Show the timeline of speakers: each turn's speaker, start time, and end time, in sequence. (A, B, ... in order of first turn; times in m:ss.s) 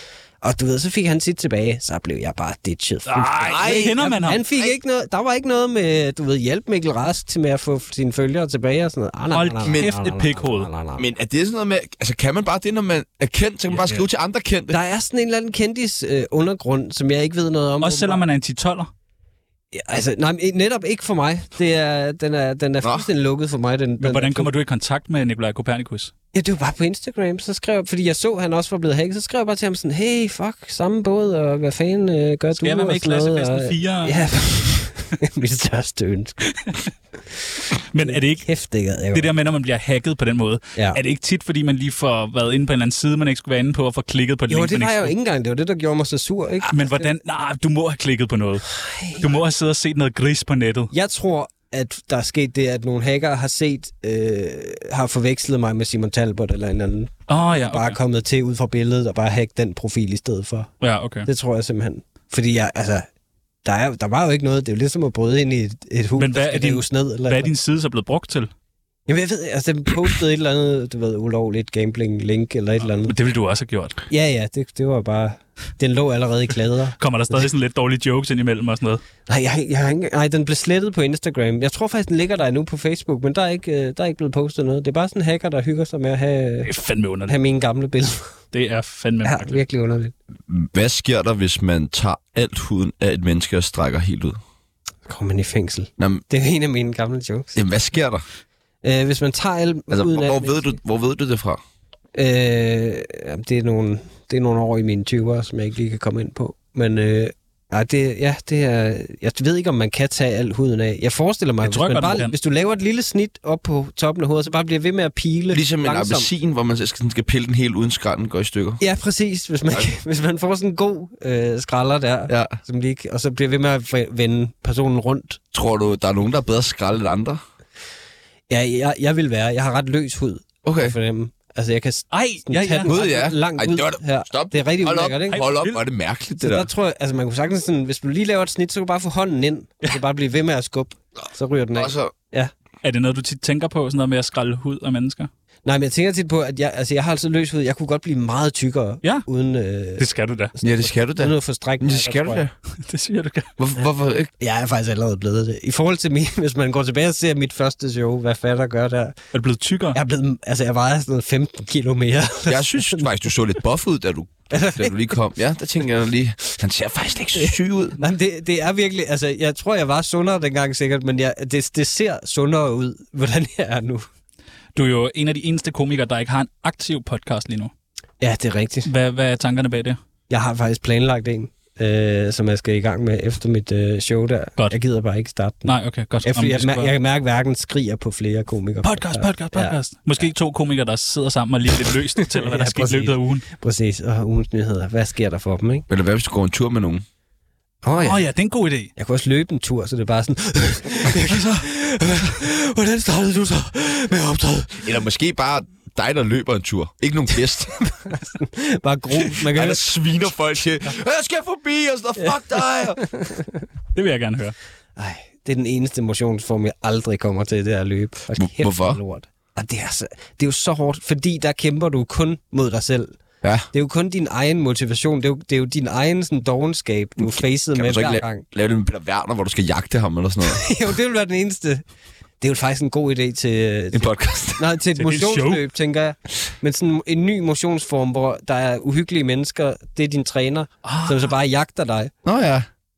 0:00.4-0:11.1 A
0:03.0-0:04.4 B
0:03.4-0:04.0 C
0:09.3-0:10.7 B
0:09.7-0:09.9 C
0:11.0-0:14.8 C
0:13.7-0:14.0 B
0:14.7-0:18.2 A
0:17.8-0:18.9 B
0:19.7-0:24.5 A
0:22.8-0:23.1 C
0:24.0-0:26.1 B
0:26.3-0:36.4 A
0:32.6-0:34.2 B
0:36.5-0:36.9 B
0:37.9-0:38.5 B
0:38.0-0:39.3 A
0:39.1-0:45.1 B
0:40.7-0:41.0 A
0:44.5-0:47.1 A
0:46.7-0:50.9 B
0:48.7-0:49.4 A
0:50.9-1:00.7 A
0:57.3-0:58.0 B
1:00.8-1:01.3 B
1:01.2-1:03.1 A
1:03.6-1:07.5 A
1:06.2-1:08.5 B
1:09.1-1:13.1 A
1:13.0-1:14.0 B
1:14.1-1:17.4 A
1:17.0-1:19.0 B
1:19.3-1:26.7 A
1:26.6-1:27.4 B
1:27.3-1:28.3 A
1:28.5-1:29.6 B
1:29.2-1:30.1 A
1:30.5-1:34.4 C
1:35.0-1:37.6 A
1:36.0-1:36.2 C
1:37.5-1:38.2 C
1:38.8-1:40.8 A
1:39.9-1:41.6 C
1:42.1-1:56.3 A
1:51.6-1:52.3 B
1:55.5-1:58.8 C
1:58.8-2:05.4 A
2:02.3-2:02.6 C
2:05.5-2:07.4 C
2:08.5-2:15.4 A
2:10.6-2:11.0 C
2:12.1-2:12.9 B
2:12.8-2:16.7 C
2:15.3-2:15.8 B
2:16.4-2:22.5 A
2:21.7-2:22.1 C
2:22.8-2:25.3 B
2:25.6-2:32.4 A
2:30.0-2:30.5 B
2:30.6-2:32.5 C
2:32.8-2:33.5 B
2:33.6-2:34.3 C
2:34.4-2:39.2 A
2:39.3-2:40.0 B
2:39.9-2:43.1 A
2:42.5-2:48.0 C
2:44.5-2:45.2 A
2:47.4-2:54.1 A
2:54.7-2:57.7 B
2:58.2-2:58.9 A
2:58.8-3:00.0 B
3:00.3-3:10.2 A
3:05.6-3:06.9 B
3:08.8-3:13.4 B
3:12.2-3:15.8 A
3:15.9-3:17.0 C
3:17.8-3:18.2 A
3:18.0-3:18.9 B
3:19.0-3:24.9 A
3:21.3-3:21.6 B
3:24.8-3:28.1 C
3:28.1-3:29.9 A
3:29.1-3:33.0 C
3:33.0-3:33.6 A
3:33.9-3:34.6 B
3:35.0-3:43.2 A
3:38.4-3:39.0 C
3:43.4-3:43.7 C
3:43.7-3:48.4 A
3:47.2-3:50.7 C
3:50.4-3:51.8 A
3:52.4-4:02.1 A
3:53.9-3:54.6 C
3:55.0-3:55.6 B
4:00.8-4:01.3 B
4:02.2-4:02.7 C